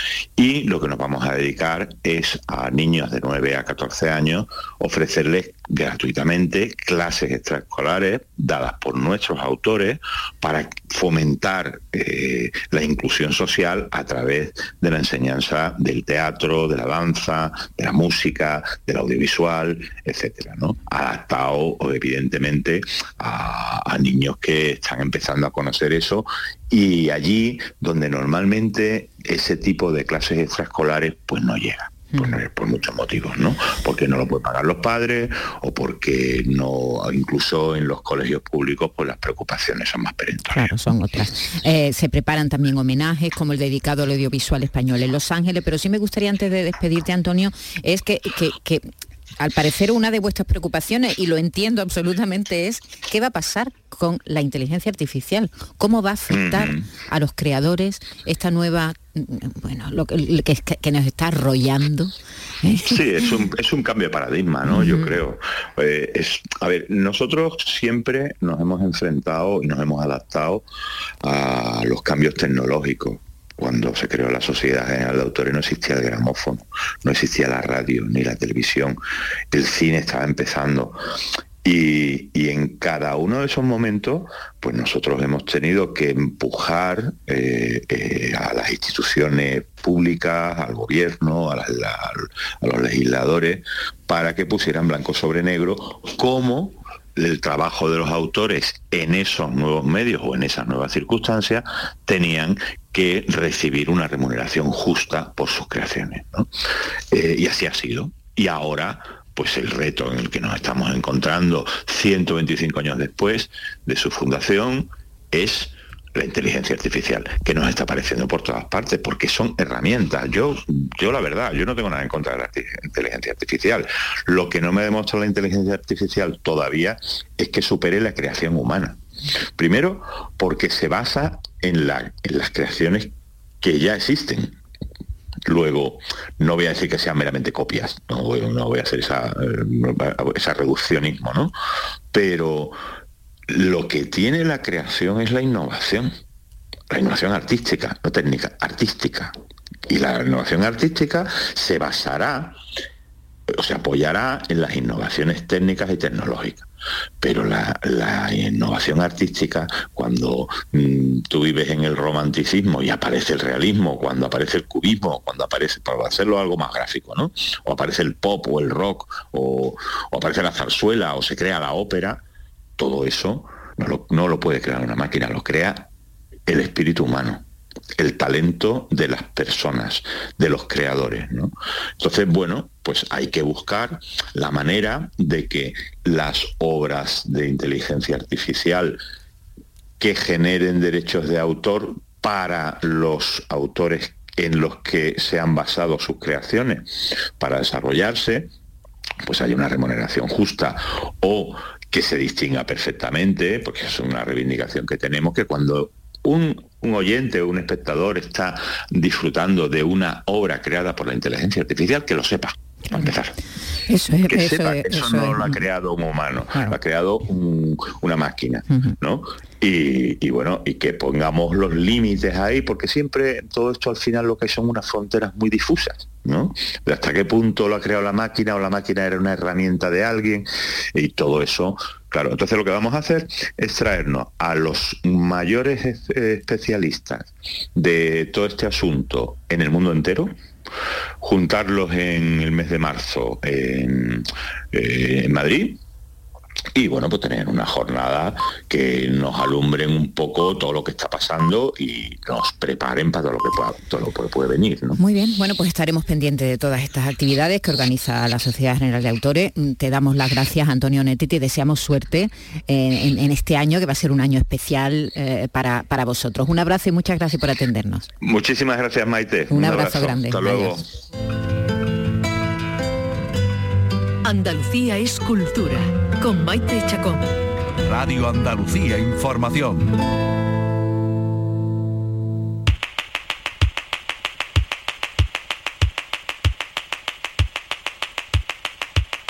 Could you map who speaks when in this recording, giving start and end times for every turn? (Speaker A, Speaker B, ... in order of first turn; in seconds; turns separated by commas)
Speaker A: 0.4-40.6, Speaker B: 40.5-48.9, Speaker B: 49.4-63.0, Speaker A: 56.3-56.9, Speaker A: 62.9-70.6, Speaker B: 64.7-65.1, Speaker A: 71.2-79.0, Speaker A: 79.5-81.0, Speaker A: 81.6-106.5, Speaker A: 107.1-129.0, Speaker A: 129.6-134.6, Speaker A: 135.5-141.5, Speaker A: 142.1-142.8, Speaker A: 143.5-146.1, Speaker A: 146.9-149.3, Speaker A: 149.9-152.6, Speaker A: 153.5-156.7, Speaker A: 157.2-172.2, Speaker A: 172.8-175.9, Speaker A: 176.5-177.4, Speaker A: 178.0-189.0, Speaker A: 190.0-196.9, Speaker A: 197.4-198.5, Speaker A: 199.2-213.4, Speaker B: 213.9-215.6, Speaker A: 214.3-240.3, Speaker B: 218.7-218.9, Speaker A: 241.2-245.8, Speaker A: 246.8-255.0, Speaker B: 255.0-268.1, Speaker A: 268.2-270.8, Speaker B: 269.5-270.8, Speaker C: 274.2-277.3, Speaker D: 277.9-279.9